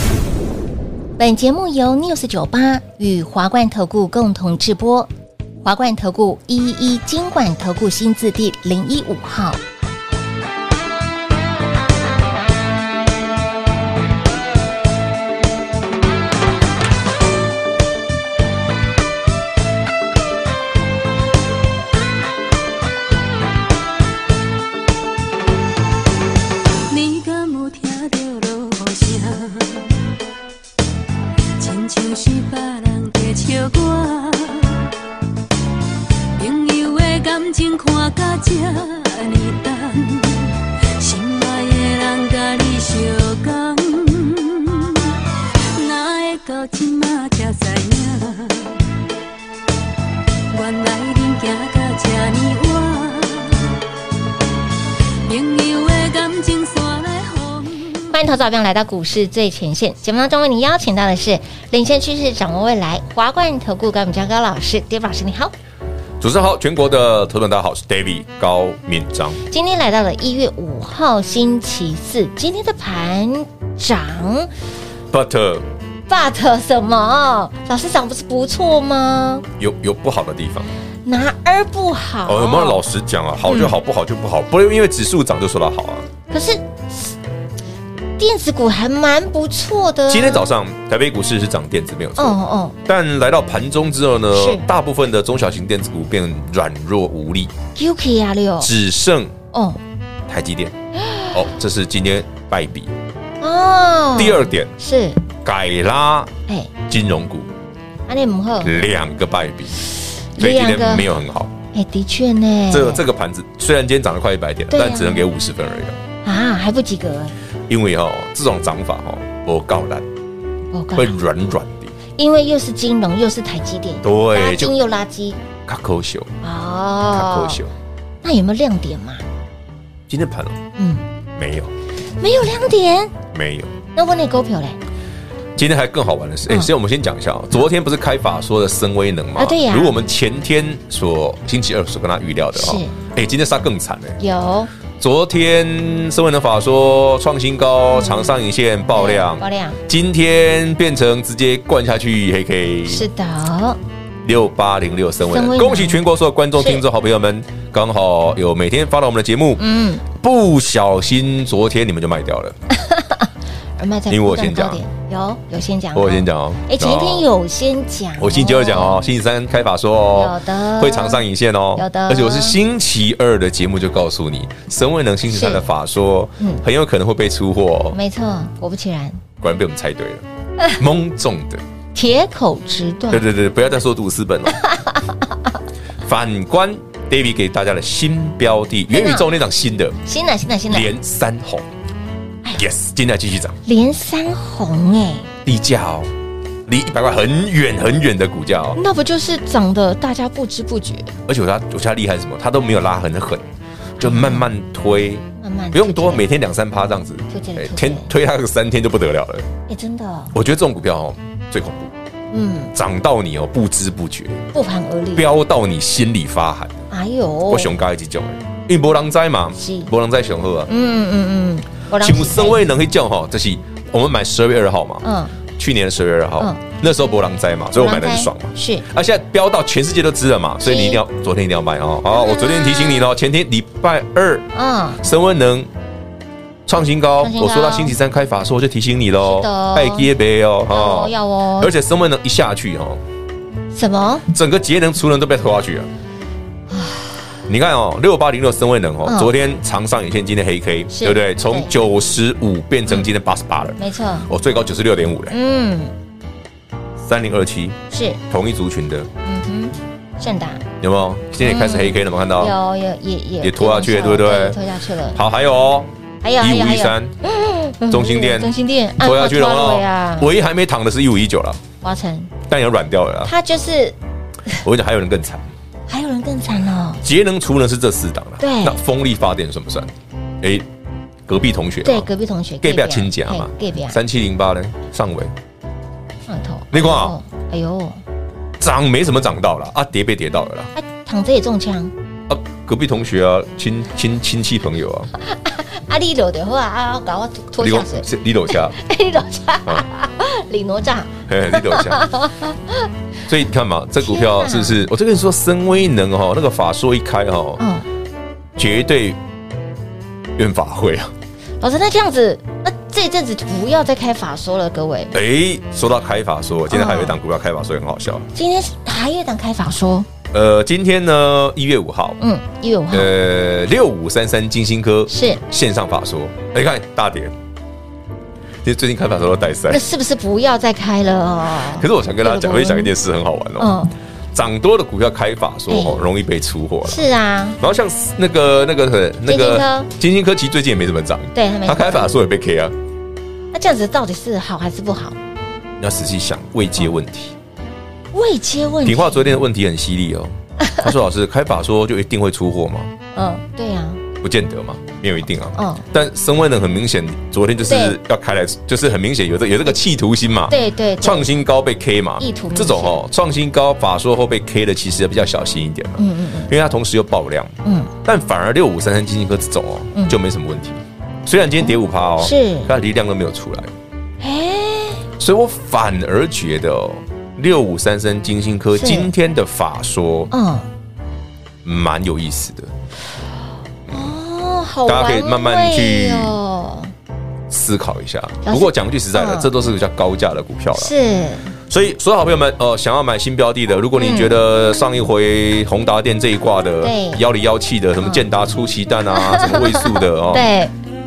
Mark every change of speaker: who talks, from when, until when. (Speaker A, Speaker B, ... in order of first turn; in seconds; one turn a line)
Speaker A: 1.2-5.1
Speaker A: 5.6-9.6
Speaker B: 26.9-29.9
Speaker B: 31.6-34.8
Speaker B: 36.4-45.1
Speaker B: 45.6-48.8
Speaker B: 50.5-53.6
Speaker B: 55.2-57.9
Speaker A: 58.1-65.5
Speaker C: 66.2-69.4
Speaker A: 69.5-74.5
Speaker C: 75.1-75.7
Speaker A: 76.1-79.5
Speaker C: 79.6-80.7
Speaker A: 81.0-82.8
Speaker C: 82.2-86.0
Speaker A: 83.5-83.8
Speaker A: 86.3-87.1
Speaker A: 88.2-90.4
Speaker C: 90.1-97.5
Speaker A: 92.2-92.8
Speaker A: 94.3-94.7
Speaker A: 97.7-98.7
Speaker C: 98.6-99.3
Speaker A: 99.5-99.8
Speaker C: 100.3-100.7
Speaker A: 101.0-101.4
Speaker C: 101.3-102.9
Speaker A: 103.4-105.2
Speaker C: 104.2-104.7
Speaker C: 105.4-106.3
Speaker C: 106.9-107.5
Speaker A: 108.1-108.8
Speaker C: 108.6-109.8
Speaker A: 110.3-111.2
Speaker C: 110.4-111.5
Speaker A: 111.7-113.0
Speaker C: 112.7-116.0
Speaker A: 114.7-115.2
Speaker A: 116.2-117.3
Speaker C: 117.7-120.0
Speaker A: 120.7-121.2
Speaker C: 120.9-121.9
Speaker A: 122.2-125.4
Speaker C: 124.0-124.8
Speaker C: 125.7-126.3
Speaker A: 126.4-127.6
Speaker C: 127.1-127.7
Speaker A: 128.2-129.2
Speaker C: 130.1-130.6
Speaker A: 130.8-131.0
Speaker C: 131.3-131.7
Speaker A: 132.2-133.2
Speaker C: 133.3-133.7
Speaker A: 133.9-134.8
Speaker C: 135.6-144.2
Speaker A: 139.3-140.0
Speaker A: 142.5-143.0
Speaker A: 144.2-144.7
Speaker C: 145.0-153.1
Speaker A: 147.9-148.3
Speaker A: 148.9-149.8
Speaker A: 152.9-153.8
Speaker C: 154.2-162.6
Speaker A: 155.3-156.0
Speaker A: 156.6-156.8
Speaker A: 159.6-160.0
Speaker A: 162.7-169.0
Speaker C: 164.1-164.8
Speaker C: 165.9-167.2
Speaker C: 168.2-178.0
Speaker A: 170.1-172.6
Speaker A: 175.3-175.6
Speaker A: 177.9-179.2
Speaker C: 179.4-180.2
Speaker C: 180.8-181.6
Speaker A: 181.9-183.2
Speaker C: 183.1-184.6
Speaker A: 184.5-185.0
Speaker C: 186.0-189.9
Speaker A: 188.9-189.3
Speaker A: 190.0-190.9
Speaker C: 190.7-191.7
Speaker C: 192.6-193.6
Speaker A: 193.6-195.3
Speaker C: 195.4-196.1
Speaker C: 196.7-198.8
Speaker A: 198.8-201.1
Speaker C: 201.3-209.5
Speaker A: 204.0-204.5
Speaker A: 205.4-206.2
Speaker A: 207.3-208.1
Speaker A: 209.7-210.3
Speaker C: 210.3-211.9
Speaker A: 212.3-212.7
Speaker C: 212.7-214.4
Speaker A: 214.5-215.3
Speaker C: 215.1-216.8
Speaker A: 216.9-217.7
Speaker C: 217.5-220.7
Speaker A: 219.6-219.9
Speaker A: 220.7-222.6
Speaker C: 222.0-225.0
Speaker A: 225.0-225.3
Speaker C: 225.6-234.5
Speaker A: 227.8-228.8
Speaker A: 230.6-231.0
Speaker A: 232.1-233.1
Speaker A: 234.5-235.0
Speaker C: 235.0-235.7
Speaker C: 236.7-243.0
Speaker A: 237.2-237.9
Speaker A: 239.2-240.1
Speaker A: 240.7-241.7
Speaker A: 243.7-244.3
Speaker C: 244.3-245.9
Speaker A: 246.7-247.3
Speaker C: 247.5-255.3
Speaker A: 249.1-249.3
Speaker A: 250.9-251.7
Speaker A: 253.8-254.3
Speaker A: 255.3-255.9
Speaker C: 257.0-259.1
Speaker A: 257.9-258.2
Speaker A: 259.2-260.6
Speaker C: 260.8-262.5
Speaker A: 261.4-265.2
Speaker C: 263.4-264.6
Speaker C: 265.1-267.1
Speaker A: 266.2-270.3
Speaker C: 267.9-271.6
Speaker A: 271.8-272.3
Speaker C: 272.5-273.3
Speaker A: 273.2-273.9
Speaker C: 274.6-275.5
Speaker A: 275.9-277.0
Speaker C: 277.0-280.6
Speaker A: 278.4-278.8
Speaker C: 281.3-282.1
Speaker A: 281.8-284.0
Speaker C: 282.6-285.3
Speaker A: 286.3-288.0
Speaker C: 286.7-287.1
Speaker C: 288.6-290.7
Speaker A: 290.8-291.9
Speaker C: 292.3-295.1
Speaker A: 295.2-302.9
Speaker C: 297.6-298.8
Speaker C: 301.3-302.0
Speaker C: 303.3-307.6
Speaker A: 304.0-304.8
Speaker A: 307.6-307.9
Speaker C: 308.6-309.2
Speaker C: 310.4-311.1
Speaker A: 311.6-315.1
Speaker C: 315.1-318.3
Speaker A: 316.7-317.2
Speaker A: 318.3-320.1
Speaker C: 320.3-322.2
Speaker A: 322.2-323.1
Speaker C: 322.9-327.3
Speaker A: 325.1-325.4
Speaker C: 328.6-329.8
Speaker A: 329.7-332.9
Speaker C: 331.7-333.7
Speaker A: 333.6-333.9
Speaker C: 334.3-337.0
Speaker A: 335.7-336.0
Speaker A: 336.8-337.6
Speaker C: 337.6-342.7
Speaker A: 339.2-339.9
Speaker A: 341.3-342.1
Speaker A: 343.5-345.2
Speaker C: 345.8-347.3
Speaker A: 348.1-349.4
Speaker C: 348.8-352.9
Speaker A: 353.1-354.0
Speaker C: 354.2-373.7
Speaker A: 355.6-355.9
Speaker A: 357.7-358.0
Speaker A: 360.5-361.3
Speaker A: 362.2-363.0
Speaker A: 366.0-366.5
Speaker A: 367.6-367.9
Speaker A: 372.2-372.7
Speaker A: 374.2-375.0
Speaker C: 375.2-380.3
Speaker A: 378.8-379.1
Speaker A: 380.3-380.7
Speaker C: 381.6-382.7
Speaker A: 383.9-386.9
Speaker C: 384.9-386.4
Speaker C: 387.5-390.9
Speaker A: 388.4-389.5
Speaker A: 390.7-391.5
Speaker C: 391.7-400.5
Speaker A: 394.0-394.4
Speaker A: 396.8-397.2
Speaker A: 399.1-400.7